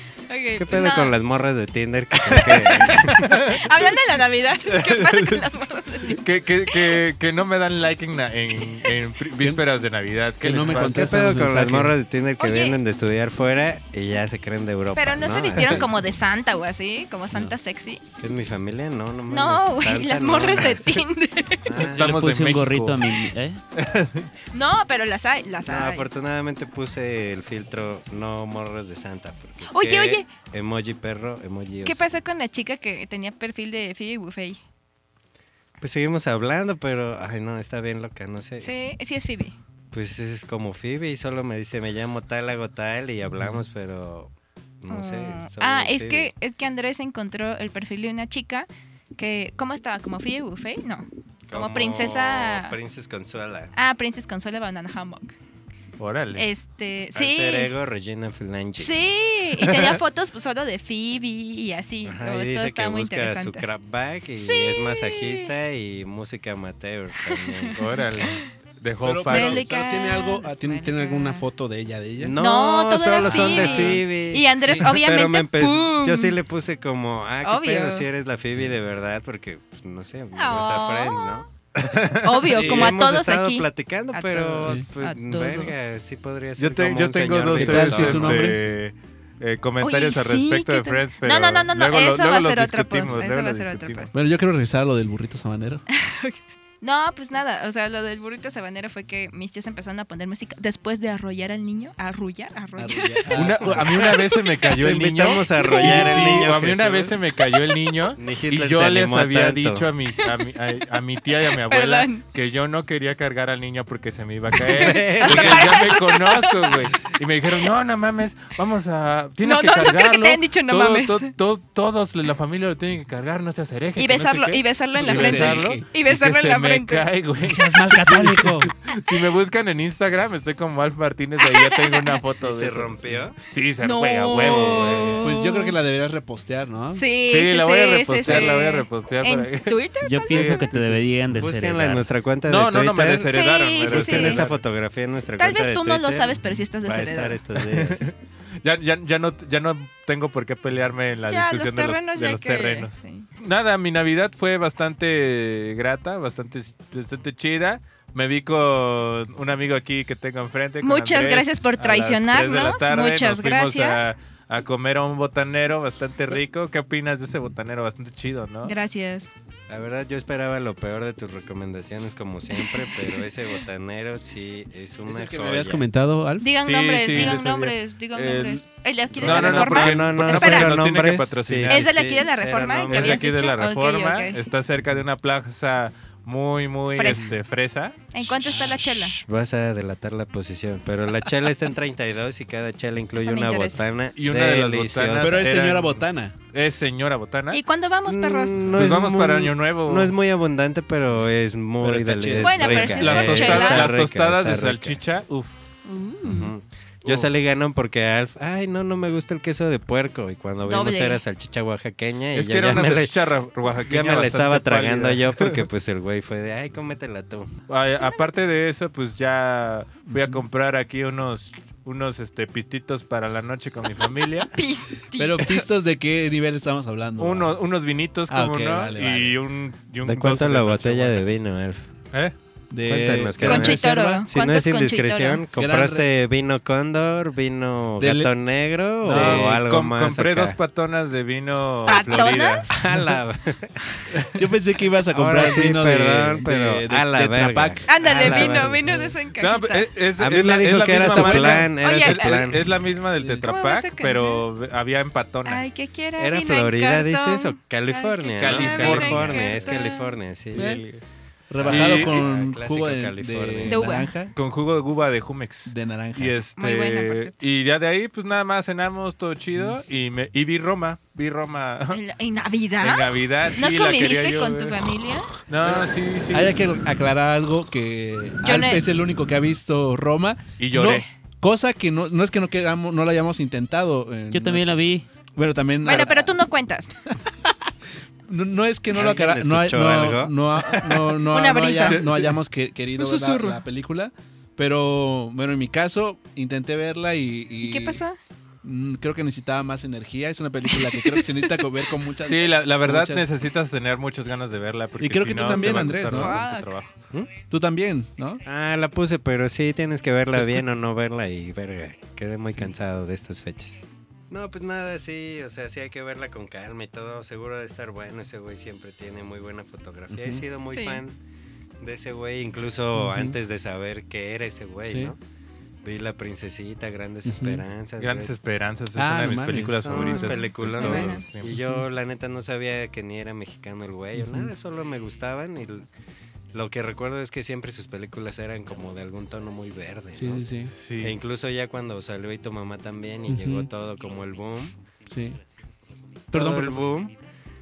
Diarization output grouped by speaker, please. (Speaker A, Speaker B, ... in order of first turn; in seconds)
Speaker A: 0.3-1.1, 2.7-6.2, 6.7-7.0, 12.4-12.8, 14.9-18.0, 19.3-21.7, 24.5-26.1, 29.6-30.3, 31.8-34.6, 38.6-39.5, 44.9-52.8, 53.7-55.3, 56.4-57.7, 58.8-63.6, 64.3-65.5, 67.2-68.5, 69.3-71.5, 72.4-76.4, 77.4-78.1, 80.3-81.4, 82.2-85.8, 89.8-94.1, 95.9-104.5, 105.5-106.5, 111.6-112.2, 114.7-116.8, 119.4-121.3, 124.0-127.1, 131.4-132.2, 133.8-135.8, 136.9-140.7, 143.2-144.4, 145.4-147.4, 151.3-153.3, 160.8-164.1, 168.6-169.3, 176.4-180.7, 181.7-184.4, 186.9-187.2, 188.1-189.2, 193.2-193.8, 197.5-198.6, 202.4-203.9, 205.8-206.5, 210.6-211.2, 217.9-218.2, 224.5-225.6, 233.4-235.4, 241.8-242.7, 247.9-249.9, 251.8-252.4, 253.4-254.4, 255.4-260.1, 263.6-264.1, 266.6-267.4, 271.9-275.3, 278.4-278.8, 285.8-286.9, 291.3-292.0, 293.0-293.6, 297.6-298.2, 300.7-301.2, 305.6-306.8, 320.7-321.0, 330.1-331.2
Speaker B: 0.6-3.2, 10.7-15.9, 18.2-21.1, 21.6-22.1, 25.6-32.0, 35.8-38.7, 39.9-46.3, 51.5-53.7, 57.1-58.9, 62.0-68.2, 72.2-81.5, 82.4-88.5, 104.7-107.2, 108.2-109.9, 114.6-115.9, 132.4-133.3, 134.7-135.2, 141.3-148.1, 169.7-175.9, 179.1-183.2, 188.2-195.6, 198.1-205.0, 206.2-217.5, 230.0-231.9, 232.8-240.6, 241.9-244.0, 245.1-248.8, 250.2-252.7, 256.2-260.8, 261.6-263.9, 288.9-290.3, 308.4-321.2, 321.8-325.2, 325.8-328.3, 329.8-335.9, 336.5-340.5, 341.0-344.8, 346.3-347.1
Speaker C: 2.5-3.5, 4.7-5.4, 6.0-11.3, 21.8-23.2, 23.7-24.3, 56.0-56.4, 67.8-69.6, 81.8-82.7, 86.6-94.1, 103.3-135.3, 137.3-141.0, 142.5-144.6, 147.6-168.7, 176.6-178.6, 179.2-181.9, 182.9-188.0, 194.2-197.6, 198.7-200.1, 202.9-205.8, 212.3-215.7, 217.7-224.5, 227.2-231.3, 239.0-242.7, 249.4-255.6, 258.4-259.7, 260.5-261.0, 261.6-262.2, 264.3-272.0, 272.8-274.9, 275.5-276.6, 280.6-281.1, 290.7-291.1, 291.8-292.4, 302.3-306.9, 328.0-331.6, 340.8-341.1
Speaker D: 10.4-11.9, 69.0-72.4, 87.5-88.6, 94.1-95.8, 102.8-104.0, 125.0-125.8, 127.4-128.7, 135.2-137.0, 138.2-138.5, 175.1-176.5, 187.1-187.3, 195.2-196.3, 201.8-203.2, 220.1-220.4, 225.2-227.6, 228.3-229.3, 232.7-234.2, 235.6-236.1, 238.0-238.3, 239.0-239.6, 244.3-249.1, 250.9-251.7, 253.2-253.5, 260.5-260.8, 261.5-264.3, 265.6-266.4, 275.6-284.8, 285.3-286.3, 287.3-287.5, 288.3-298.0, 298.6-303.3, 305.0-306.4, 307.5-308.4, 310.3-310.6, 320.1-320.4, 322.9-323.4, 324.9-325.1, 327.2-327.6, 328.9-330.0, 334.1-334.5, 340.1-340.7, 343.3-343.7, 345.1-345.4, 346.3-346.8
Speaker E: 21.9-23.6, 140.0-142.0, 284.3-285.1